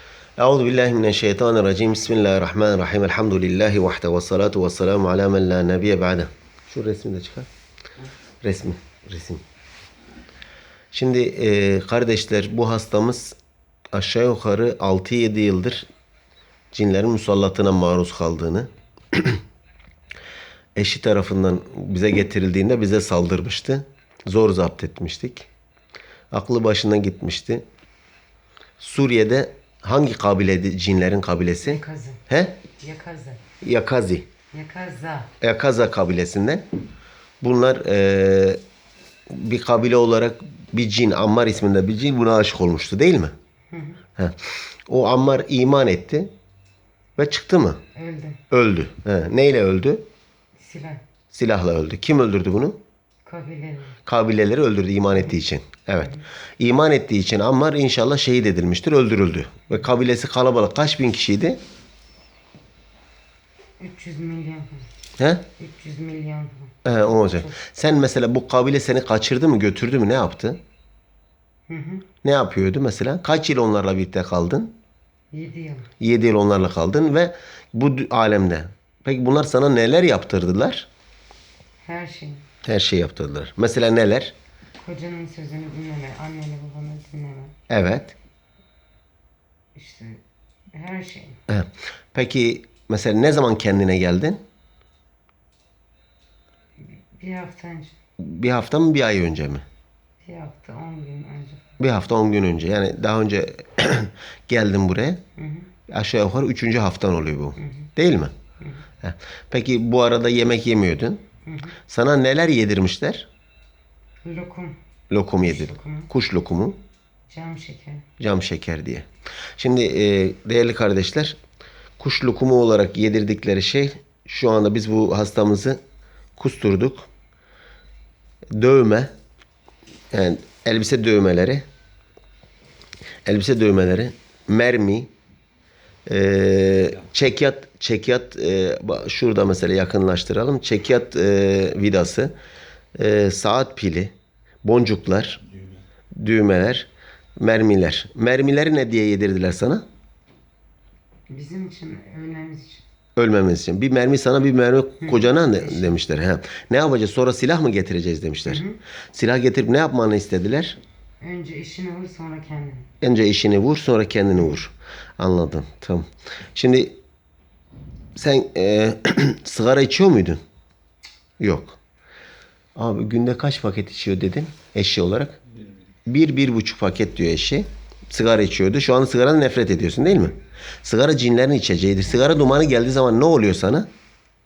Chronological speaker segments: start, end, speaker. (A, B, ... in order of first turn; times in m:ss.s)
0:00.4-0:07.5 A
0:08.4-0:09.4 A
0:10.9-0:13.4 A
0:13.9-0:15.8 A
0:16.7-0:19.4 A
0:20.8-0:25.5 A
0:26.3-0:27.6 A
0:28.8-0:32.6 A
0:31.6-0:32.2 B
0:32.8-0:33.4 B
0:33.6-0:34.3 A
0:34.5-0:35.3 B
0:35.4-0:36.6 A
0:37.4-0:38.6 A
0:39.3-0:43.3 A
0:43.7-0:44.0 B
0:44.2-0:46.3 A
0:47.2-0:47.8 A
0:47.9-0:48.4 B
0:48.5-0:50.0 A
0:50.6-0:51.0 B
0:51.3-0:52.8 A
0:53.2-0:54.0 B
0:54.0-1:01.6 A
1:03.8-1:04.9 B
1:05.2-1:05.4 A
1:05.6-1:07.6 B
1:06.8-1:10.6 A
1:11.7-1:12.1 B
1:12.2-1:14.7 A
1:15.3-1:15.9 B
1:16.0-1:20.9 A
1:21.8-1:22.4 B
1:22.6-1:24.3 A
1:24.8-1:27.6 B
1:27.7-1:28.1 A
1:29.7-1:30.2 B
1:30.7-1:31.4 B
1:31.5-1:34.4 A
1:36.8-1:38.0 B
1:38.2-1:39.6 A
1:40.2-1:41.8 B
1:41.8-1:45.2 A
1:45.4-1:45.7 B
1:45.9-1:48.4 A
1:47.6-1:47.9 B
1:49.0-1:51.2 A
1:51.4-1:51.8 B
1:51.9-1:53.3 A
1:54.2-1:54.8 B
1:55.1-1:56.8 A
1:55.4-1:56.1 B
1:57.3-1:58.1 B
1:58.2-2:01.4 A
2:02.0-2:05.8 A
2:06.4-2:07.1 A
2:08.6-2:09.1 A
2:10.1-2:11.6 A
2:13.2-2:15.1 A
2:16.0-2:22.3 A
2:22.9-2:25.4 A
2:26.1-2:29.8 A
2:31.3-2:32.8 B
2:33.2-2:40.8 A
2:35.0-2:36.0 B
2:38.4-2:38.8 B
2:41.2-2:42.9 B
2:43.0-2:47.0 A
2:48.1-2:50.4 A
2:51.4-2:51.8 A
2:52.8-2:55.4 A
2:56.0-3:03.9 A